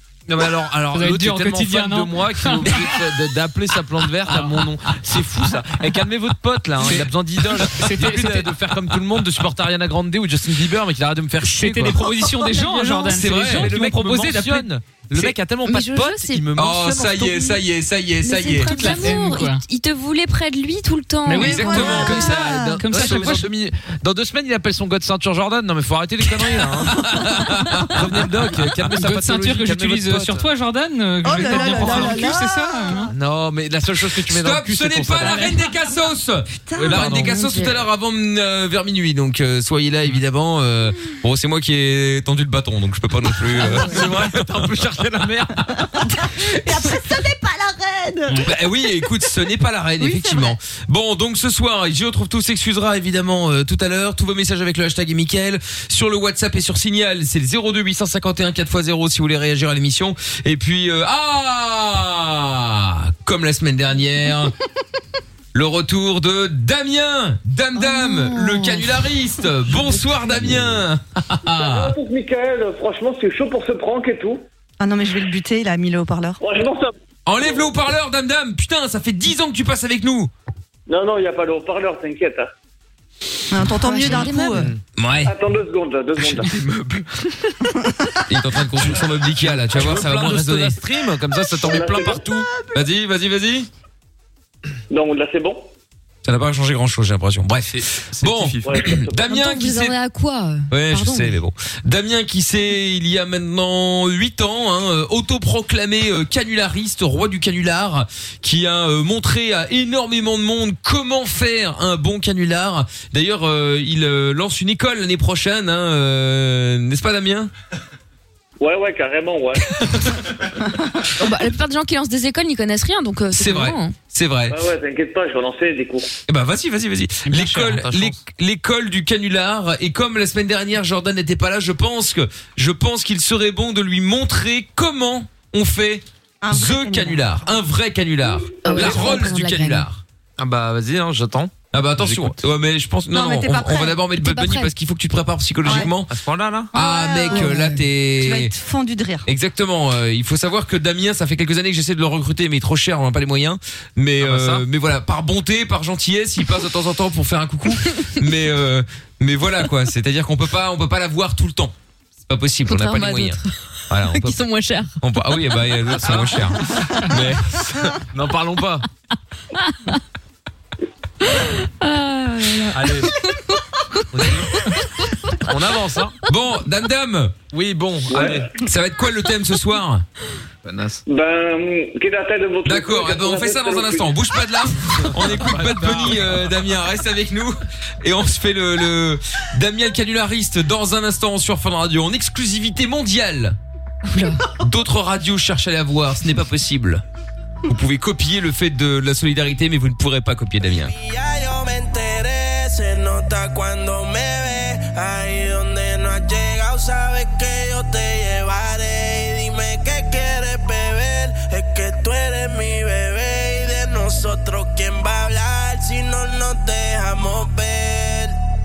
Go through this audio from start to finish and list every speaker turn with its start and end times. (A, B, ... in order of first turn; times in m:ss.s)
0:00.3-0:12.0 A
0:00.9-0:03.0 B
0:04.3-0:04.5 B
0:06.8-0:07.1 B
0:07.7-0:08.6 B
0:11.4-0:14.7 B
0:13.0-0:17.6 A
0:13.1-0:14.2 C
0:15.2-0:16.5 D
0:16.6-0:19.0 C
0:18.2-0:21.9 D
0:18.6-0:19.6 B
0:21.2-0:23.5 B
0:21.4-0:22.4 C
0:21.4-0:22.8 E
0:21.8-0:27.0 A
0:23.0-0:23.4 C
0:26.6-0:28.1 C
0:27.9-0:30.5 A
0:29.0-0:33.1 B
0:31.2-0:33.1 E
0:31.4-0:32.1 A
0:33.1-0:35.4 A
0:34.2-0:44.7 C
0:36.7-0:37.0 E
0:36.8-0:37.4 A
0:36.9-0:37.8 D
0:43.8-0:45.7 A
0:46.0-0:48.4 E
0:48.4-1:04.5 C
0:50.0-0:50.6 E
1:05.5-1:12.0 C
1:07.8-1:09.1 D
1:09.7-1:10.7 D
1:11.5-1:14.4 F
1:14.8-1:16.4 E
1:16.4-1:16.9 F
1:17.2-1:20.3 C
1:20.9-1:22.5 F
1:23.5-1:24.7 E
1:23.8-1:24.7 D
1:25.0-1:25.3 C
1:25.2-1:26.5 F
1:26.2-1:27.0 C
1:28.3-1:30.8 C
1:29.4-1:32.5 A
1:31.6-1:32.2 F
1:32.6-1:33.7 C
1:34.9-1:35.7 F
1:36.2-1:40.0 C
1:37.7-1:38.8 A
1:38.6-1:39.2 F
1:39.2-1:41.4 D
1:40.7-1:57.5 C
1:58.6-1:59.7 F
2:01.2-2:03.9 D
2:03.3-2:04.6 C
2:04.5-2:06.1 F
2:06.3-2:20.0 C
2:07.3-2:07.8 B
2:07.7-2:08.2 A
2:16.4-2:17.3 E
2:18.6-2:19.9 D
2:20.4-2:22.4 A
2:21.7-2:26.1 C
2:23.1-2:24.0 E
2:24.2-2:24.7 D
2:25.6-2:25.9 E
2:25.7-2:26.7 A
2:26.7-2:28.5 C
2:26.7-2:29.3 E
2:27.3-2:27.8 D
2:29.3-2:44.4 C
2:34.2-2:34.6 A
2:42.7-2:43.5 D
2:44.1-2:45.0 D
2:45.0-2:47.9 C
2:46.0-2:46.4 A
2:48.1-2:48.8 A
2:49.7-2:50.0 D
2:51.2-2:53.6 D
2:52.7-2:53.1 A
2:54.1-2:54.5 A
2:55.5-2:56.2 A
2:56.2-2:57.4 C
2:57.5-2:58.5 A
2:58.1-2:58.5 F
2:58.6-3:00.0 C
3:00.6-3:01.0 A
3:01.1-3:04.1 F
3:02.6-3:13.6 C
3:05.1-3:06.4 A
3:14.1-3:14.4 D
3:14.6-3:17.0 C
3:17.7-3:20.9 C
3:20.8-3:38.4 G